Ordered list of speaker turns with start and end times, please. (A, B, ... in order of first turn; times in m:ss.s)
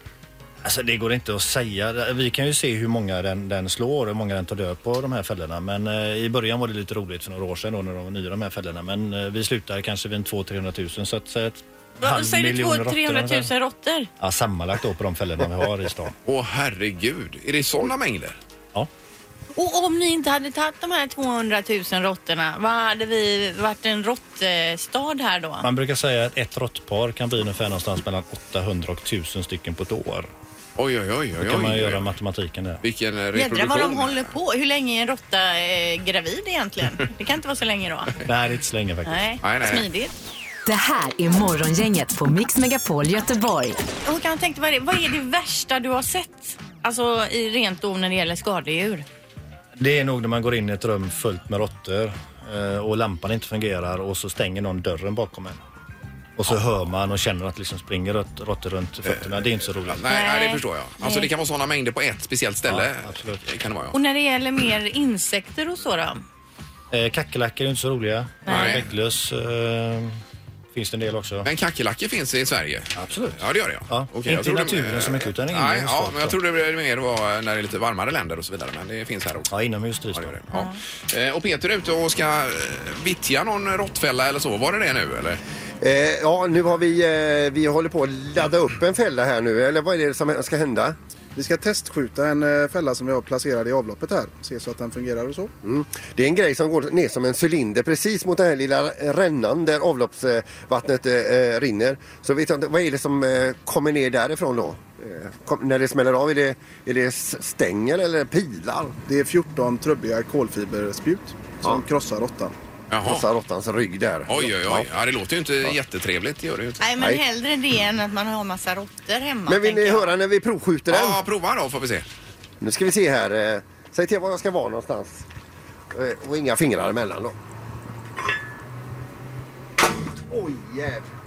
0:00.6-0:13.5 A
0:12.0-0:14.1 B
0:14.2-0:16.1 A
0:16.2-0:18.4 C
0:19.6-0:25.6 B
0:25.6-0:30.3 A
0:30.8-0:32.0 C
0:31.4-0:32.8 A
0:32.8-0:34.3 C
0:33.3-0:38.2 B
0:38.2-0:39.2 A
0:39.0-0:40.1 B
0:39.4-0:39.9 C
0:40.6-0:43.8 D
0:44.0-0:49.0 B
0:49.8-0:55.6 A
0:56.4-1:00.0 A
0:59.8-1:04.0 C
1:00.0-1:01.3 B
1:02.7-1:03.4 A
1:03.9-1:06.2 B
1:06.9-1:10.2 A
1:08.4-1:08.8 B
1:08.5-1:08.8 C
1:10.7-1:11.5 A
1:11.4-1:19.5 C
1:13.0-1:16.4 A
1:19.5-1:20.4 A
1:20.1-1:25.4 C
1:25.8-1:31.0 E
1:31.4-1:35.5 F
1:35.6-1:48.9 E
1:49.1-1:52.5 F
1:52.9-1:53.2 C
1:53.0-1:54.9 E
1:54.3-1:56.8 C
1:56.8-2:00.1 B
1:59.5-2:01.2 E
2:00.9-2:02.0 C
2:02.6-2:05.2 E
2:05.9-2:07.4 E
2:10.3-2:11.1 E